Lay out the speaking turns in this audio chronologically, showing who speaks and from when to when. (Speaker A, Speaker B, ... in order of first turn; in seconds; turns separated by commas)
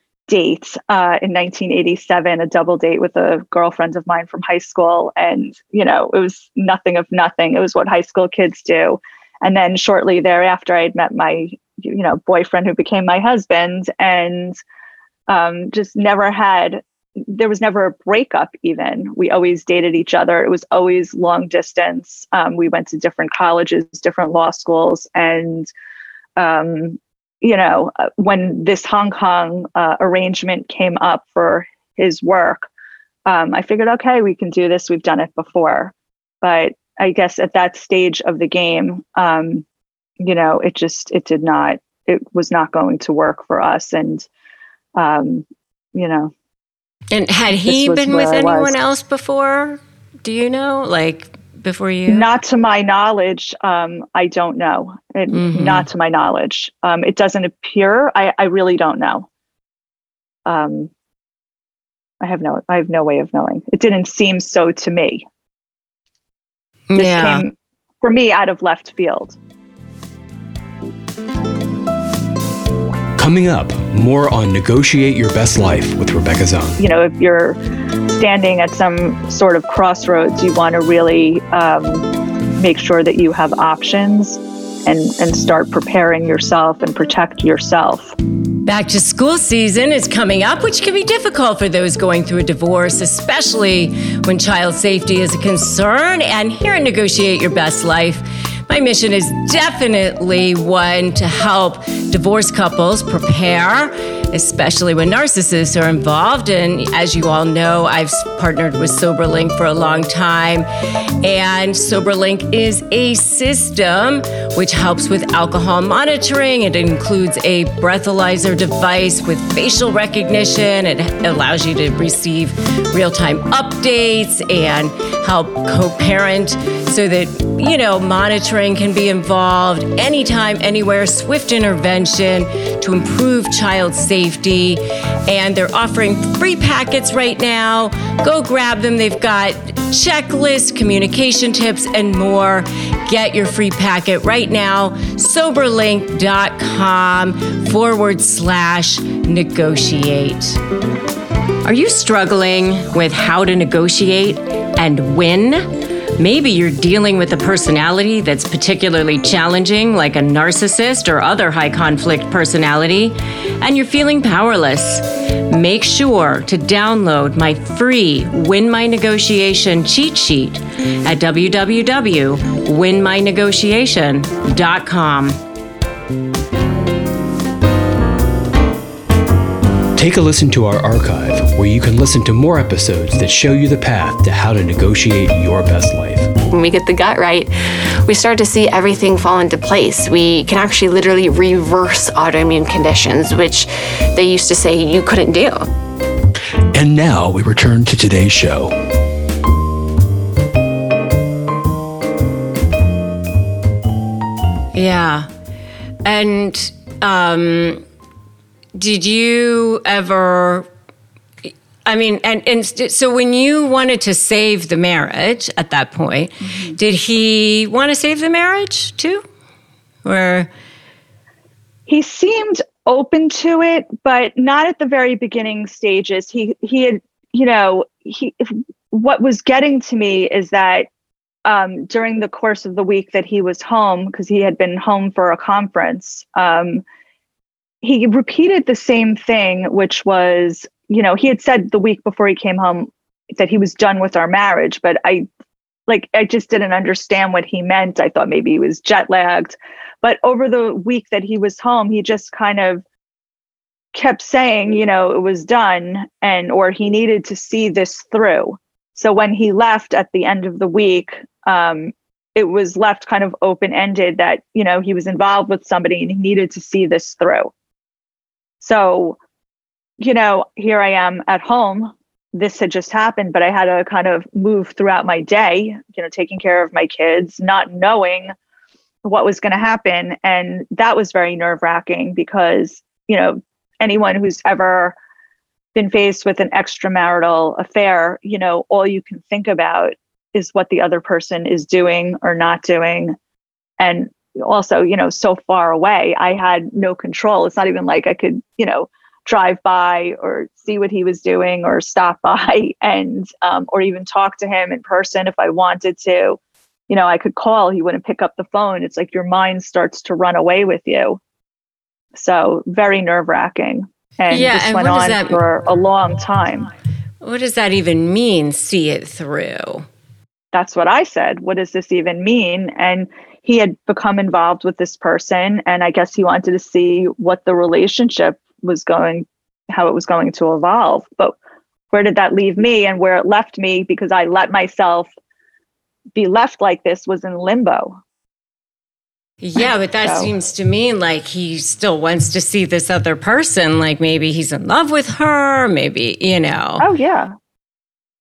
Speaker A: 0.3-14.6, Speaker A: 15.3-25.7, Speaker A: 26.4-32.7, Speaker A: 33.3-39.6, Speaker A: 40.2-44.3, Speaker A: 45.0-46.3, Speaker B: 47.1-52.3, Speaker A: 47.6-48.8, Speaker A: 52.1-59.3, Speaker B: 55.3-55.9, Speaker A: 60.5-60.9, Speaker A: 62.2-65.2, Speaker B: 66.9-67.4, Speaker A: 67.0-69.4, Speaker C: 73.2-76.8, Speaker A: 76.8-77.6, Speaker A: 78.1-82.1, Speaker A: 82.6-88.2, Speaker B: 88.7-110.7, Speaker B: 111.2-150.6, Speaker B: 151.6-175.4, Speaker C: 180.0-186.3, Speaker D: 186.5-195.7, Speaker C: 196.7-198.7, Speaker B: 204.7-205.3, Speaker B: 206.1-207.8, Speaker B: 208.8-210.7, Speaker B: 211.4-219.2, Speaker A: 216.5-216.8, Speaker B: 220.0-220.5, Speaker A: 221.9-230.9, Speaker A: 231.5-236.8, Speaker A: 237.8-245.3, Speaker A: 245.9-252.8, Speaker A: 253.9-267.5, Speaker A: 268.6-269.2, Speaker A: 270.0-278.3, Speaker A: 279.0-285.0, Speaker A: 285.7-293.1, Speaker A: 293.8-306.4, Speaker A: 306.9-311.2, Speaker A: 312.1-316.7, Speaker B: 314.3-315.4, Speaker B: 317.2-319.9, Speaker A: 320.5-331.4, Speaker A: 331.9-335.1, Speaker A: 336.1-338.0, Speaker B: 339.4-346.9, Speaker A: 340.0-340.3, Speaker A: 346.8-347.3